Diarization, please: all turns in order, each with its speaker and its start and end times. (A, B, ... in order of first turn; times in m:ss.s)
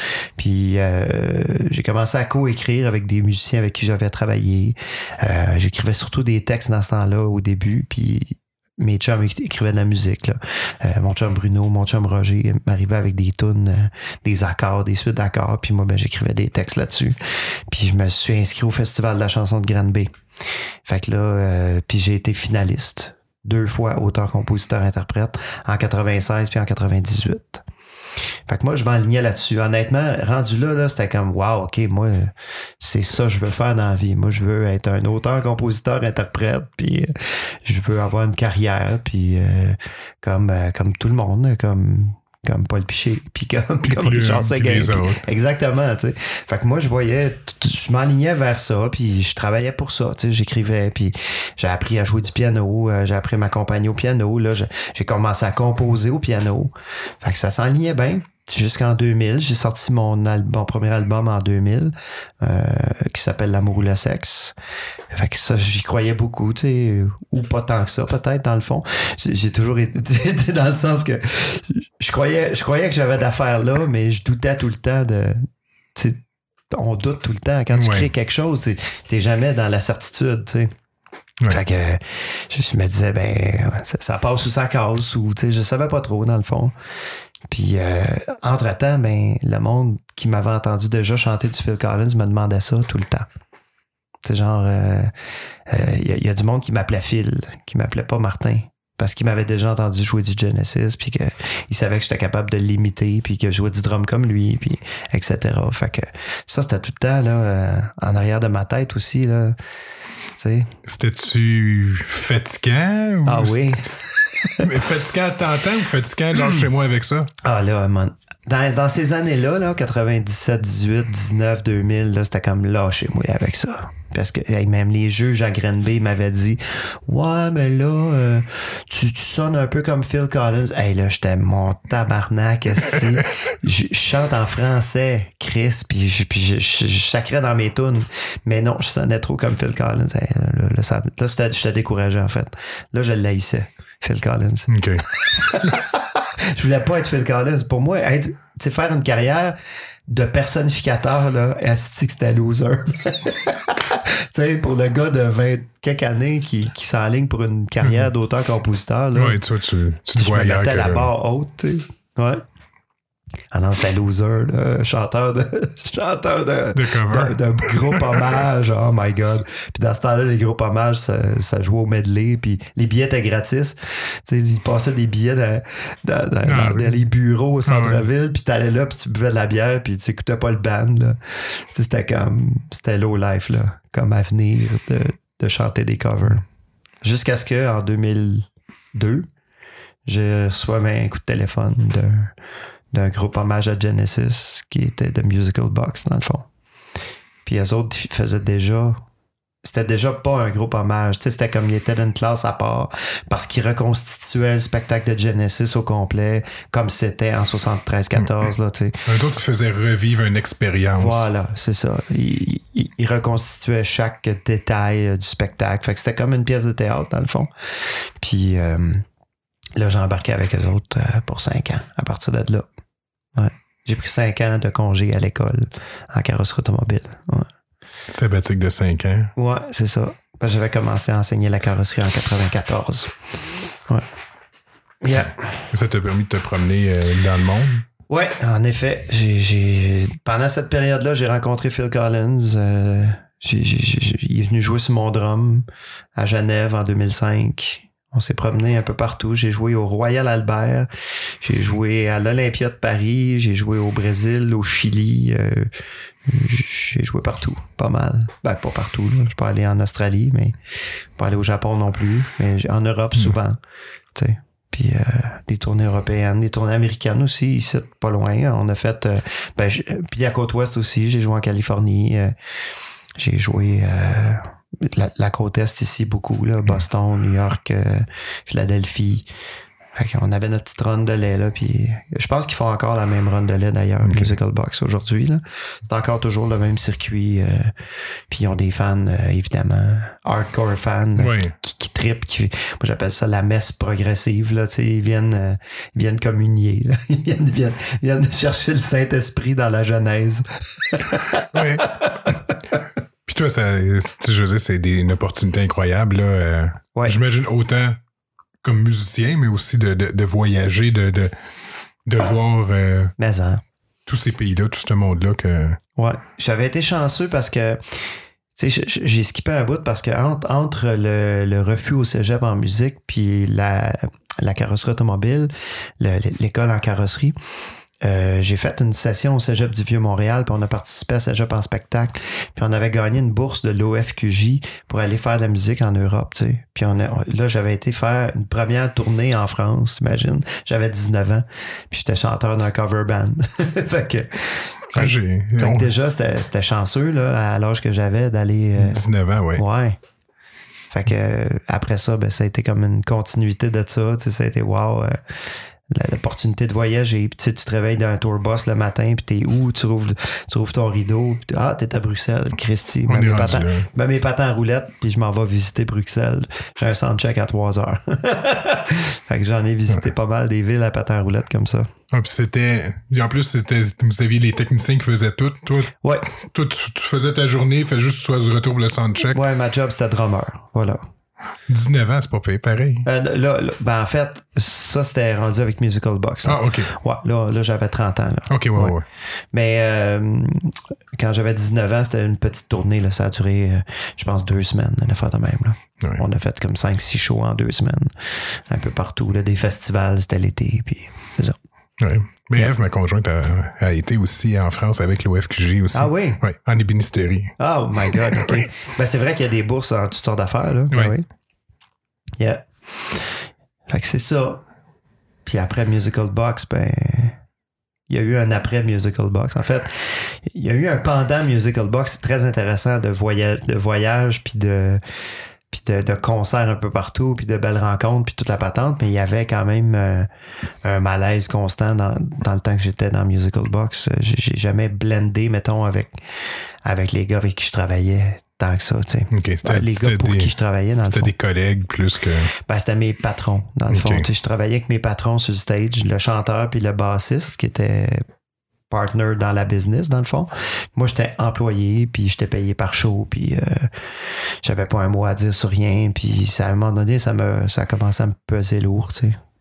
0:00.4-0:17.2 A
0:17.7-0:20.1 A
0:20.8-0:27.6 A
0:28.5-1:04.5 A
0:43.8-0:45.2 B
1:05.1-1:20.7 A
1:17.7-1:18.1 B
1:21.5-1:26.7 A
1:27.4-1:33.3 A
1:34.2-1:35.1 A
1:35.6-1:49.6 A
1:50.4-1:50.7 A
1:50.8-1:53.8 B
1:53.2-1:54.6 A
1:54.6-1:57.3 B
1:56.4-1:56.6 A
1:57.4-2:39.4 A
2:24.7-2:25.7 B
2:39.1-2:41.1 B
2:40.2-2:42.4 A
2:43.5-3:06.4 A
2:46.7-2:48.3 B
2:56.4-2:57.0 B
2:57.6-2:58.0 B
3:07.0-3:09.3 A
3:10.0-3:12.3 A
3:12.9-3:16.5 A
3:17.4-3:19.0 A
3:19.6-3:29.0 A
3:29.0-3:31.3 B
3:31.0-3:39.0 A
3:39.8-3:42.7 A
3:43.3-3:47.5 A
3:48.1-3:49.3 B
3:49.4-3:53.2 A
3:55.0-3:55.6 A
3:55.7-3:57.8 B
3:58.1-4:05.6 A
4:06.2-4:10.9 A
4:11.4-4:20.6 A
4:21.2-4:23.6 A
4:24.1-4:32.3 A
4:33.2-4:39.3 A
4:39.9-4:47.7 A
4:44.0-4:44.3 B
4:48.3-5:02.6 A
4:51.2-4:51.5 B
5:01.5-5:01.9 B
5:03.2-5:08.0 B
5:08.6-5:11.3 B
5:12.0-5:13.1 B
5:13.2-5:13.6 A
5:14.1-5:15.8 B
5:16.0-5:27.4 A
5:28.0-5:49.0 A
5:44.9-5:45.9 B
5:48.8-5:49.6 B
5:49.5-5:50.0 A
5:50.9-6:11.9 A
6:03.0-6:03.9 B
6:12.1-6:19.4 B
6:19.3-6:21.0 A
6:21.7-6:23.0 B
6:23.0-6:29.0 A
6:26.4-6:26.9 B
6:28.5-6:29.0 B
6:29.5-6:41.6 A
6:42.0-6:47.6 B
6:45.9-6:46.4 A
6:47.6-6:51.2 A
6:48.1-6:48.6 B
6:52.4-6:54.6 A
6:55.4-6:57.4 A
6:58.1-7:05.0 A
7:05.7-7:10.3 A
7:10.8-7:16.2 A
7:16.8-7:21.3 A
7:19.3-7:20.5 B
7:21.1-7:22.5 B
7:22.6-7:28.2 A
7:23.9-7:24.3 B
7:28.9-7:39.4 A